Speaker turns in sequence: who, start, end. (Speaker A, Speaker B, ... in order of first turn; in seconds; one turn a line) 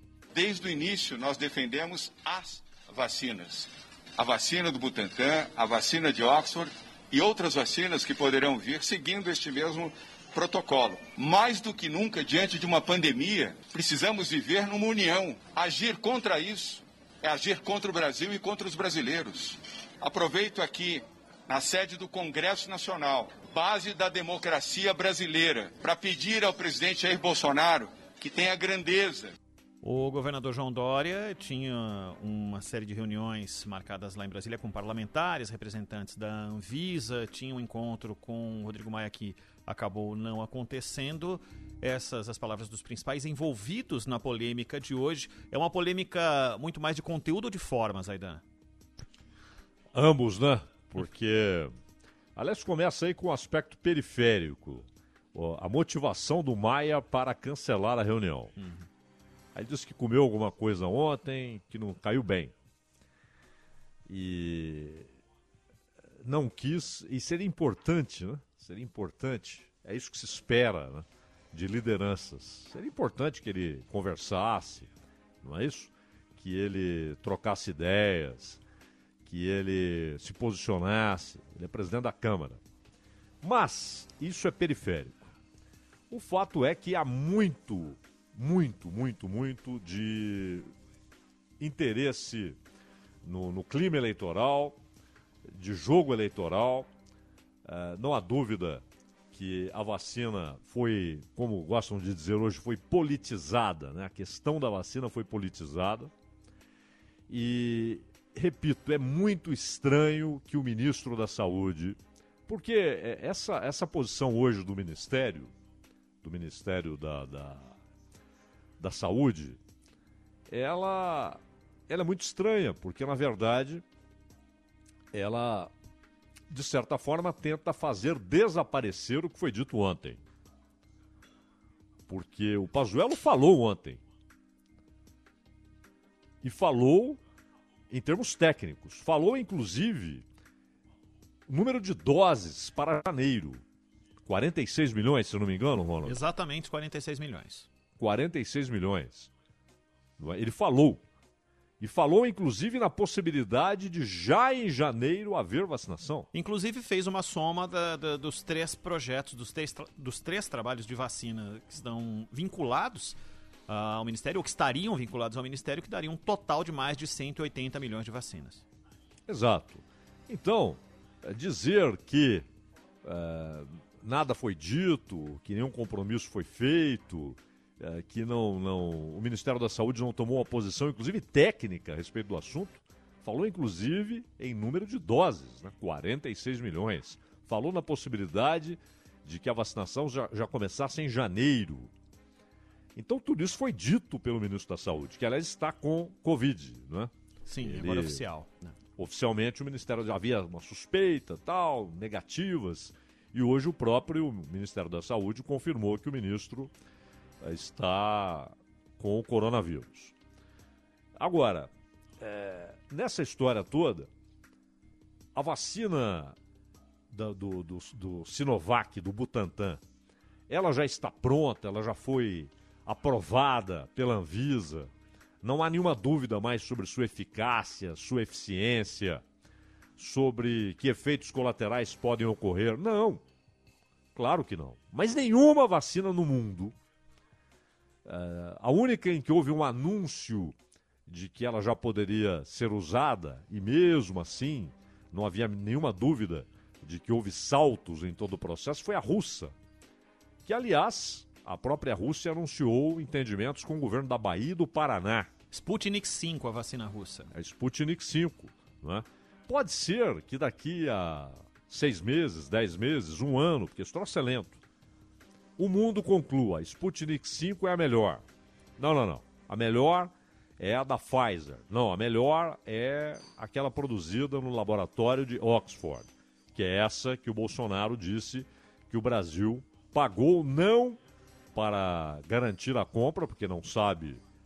Speaker A: 0.3-29.3
Speaker B: 29.8-48.4
Speaker C: 49.9-51.7
Speaker C: 52.4-58.5
Speaker B: 58.6-58.8
Speaker C: 59.5-62.5
Speaker C: 64.1-65.1
Speaker C: 66.2-74.9
Speaker C: 75.4-78.6
Speaker C: 79.2-82.6
Speaker C: 83.4-85.3
Speaker C: 86.1-90.7
Speaker C: 91.6-92.6
Speaker C: 93.2-94.8
Speaker C: 95.5-96.9
Speaker C: 97.6-106.1
Speaker C: 107.3-115.5
Speaker C: 116.2-117.7
Speaker C: 118.8-119.6
Speaker C: 120.5-123.8
Speaker C: 125.1-125.7
Speaker C: 126.5-130.2
Speaker C: 132.1-134.0
Speaker C: 136.4-137.2
Speaker C: 137.9-140.2
Speaker C: 141.5-143.6
Speaker C: 144.2-146.2
Speaker B: 146.0-147.7
Speaker C: 148.0-149.3
Speaker C: 150.2-151.0
Speaker C: 151.8-156.3
Speaker B: 156.3-163.2
Speaker B: 163.7-168.6
Speaker C: 169.3-172.5
Speaker C: 173.0-191.9
Speaker C: 192.9-197.1
Speaker B: 197.4-198.7
Speaker C: 197.6-198.2
Speaker C: 199.0-206.7
Speaker C: 207.4-210.1
Speaker C: 211.2-211.7
Speaker C: 212.2-214.1
Speaker C: 215.3-216.3
Speaker C: 217.1-219.8
Speaker C: 220.5-224.9
Speaker C: 225.4-229.2
Speaker C: 230.0-233.2
Speaker C: 234.1-236.7
Speaker C: 238.0-240.5
Speaker C: 241.1-249.5
Speaker C: 250.4-255.3
Speaker B: 255.5-257.3
Speaker C: 257.3-264.6
Speaker C: 265.6-268.2
Speaker C: 268.8-281.0
Speaker C: 281.5-284.2